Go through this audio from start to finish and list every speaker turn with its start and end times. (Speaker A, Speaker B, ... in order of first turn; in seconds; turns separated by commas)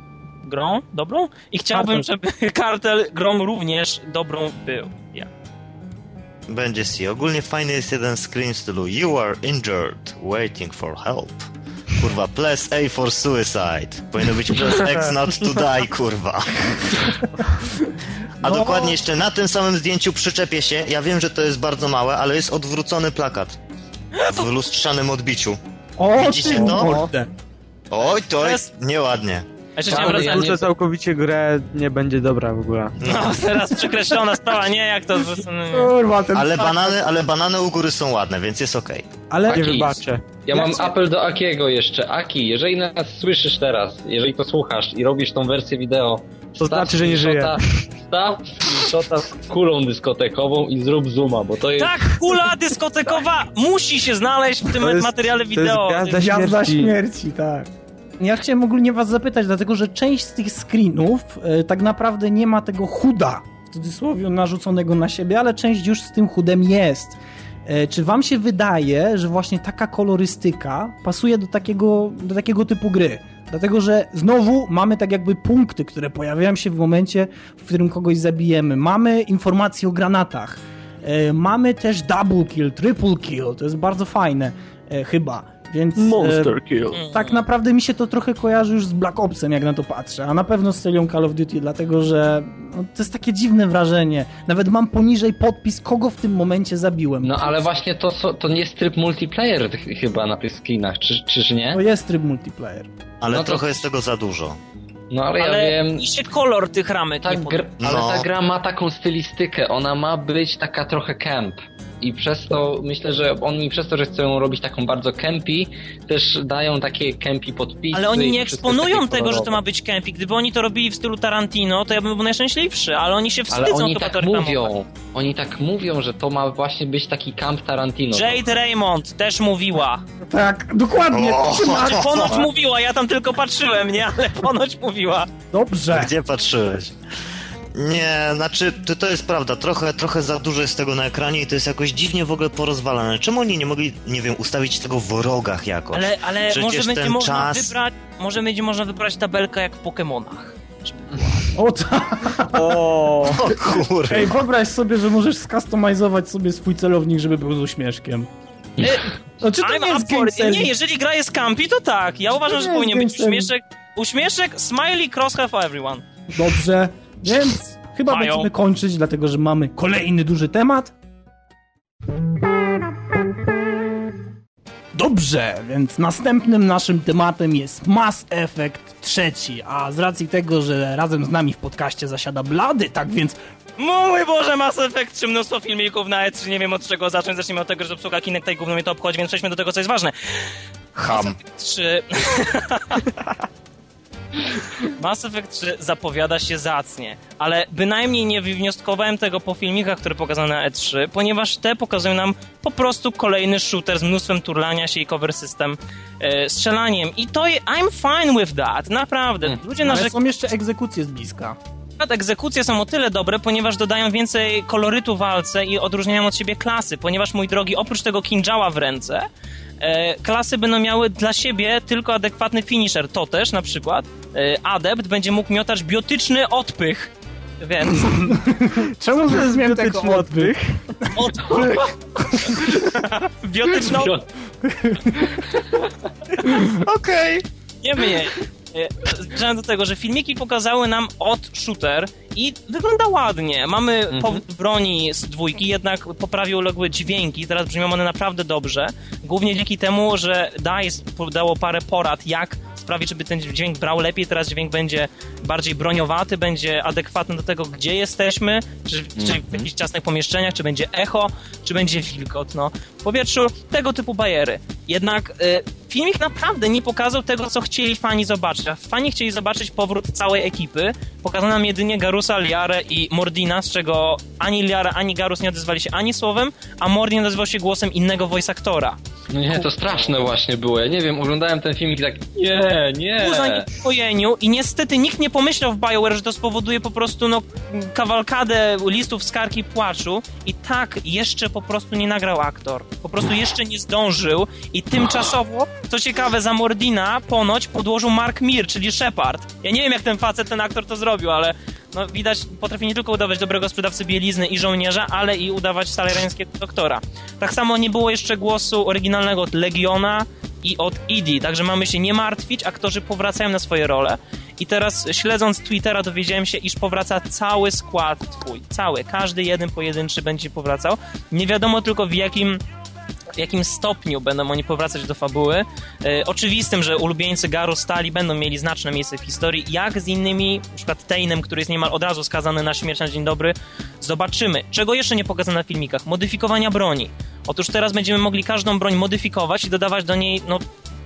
Speaker A: 0.4-5.3, Speaker B: 1.7-2.0, Speaker C: 6.5-17.1, Speaker B: 17.4-17.7, Speaker C: 18.4-23.6, Speaker B: 18.4-19.0, Speaker C: 24.2-25.6, Speaker B: 26.0-27.3, Speaker C: 26.1-27.0, Speaker D: 26.5-27.0, Speaker C: 27.9-29.5, Speaker A: 28.4-28.7, Speaker A: 29.8-30.7, Speaker E: 29.9-30.5, Speaker D: 29.9-33.2, Speaker C: 33.0-33.4, Speaker A: 33.0-35.9, Speaker B: 33.7-34.1, Speaker B: 35.7-37.0, Speaker C: 36.3-39.1, Speaker B: 39.3-39.9, Speaker E: 39.5-52.3, Speaker D: 39.5-40.4, Speaker B: 40.5-40.9, Speaker D: 46.6-47.6, Speaker A: 51.8-56.3, Speaker D: 54.8-57.0, Speaker B: 56.2-57.7, Speaker B: 58.2-97.7, Speaker D: 86.0-87.0, Speaker A: 86.9-87.5, Speaker E: 97.2-101.8, Speaker B: 101.7-102.9, Speaker C: 103.2-104.6, Speaker E: 103.3-103.8, Speaker E: 105.1-106.1, Speaker A: 105.4-107.7, Speaker E: 107.2-119.6, Speaker C: 107.8-108.2, Speaker A: 117.9-124.7, Speaker E: 123.5-128.4, Speaker A: 128.1-130.0, Speaker B: 130.3-132.5, Speaker C: 131.1-132.4, Speaker A: 131.6-135.3, Speaker B: 135.5-136.1, Speaker C: 135.9-136.9, Speaker C: 137.7-147.8, Speaker A: 145.9-151.5, Speaker B: 151.5-152.8, Speaker D: 152.5-153.4, Speaker C: 153.3-154.4, Speaker B: 154.1-158.3, Speaker A: 158.8-166.0, Speaker B: 159.4-160.7, Speaker B: 162.4-163.5, Speaker B: 166.3-170.9, Speaker A: 168.1-168.5, Speaker B: 174.9-183.4, Speaker A: 183.8-193.1, Speaker C: 190.9-191.4, Speaker A: 194.8-210.1, Speaker B: 209.8-211.6, Speaker A: 212.0-219.2, Speaker A: 219.8-228.4, Speaker B: 228.0-230.5, Speaker D: 229.2-230.9, Speaker B: 231.1-233.0, Speaker A: 231.1-234.2, Speaker E: 233.9-234.2, Speaker B: 234.6-235.5, Speaker B: 236.5-236.8, Speaker C: 236.8-237.4, Speaker A: 237.8-279.0, Speaker E: 244.1-244.4, Speaker E: 259.2-259.6, Speaker E: 279.3-283.7, Speaker A: 283.2-322.6, Speaker A: 323.4-340.6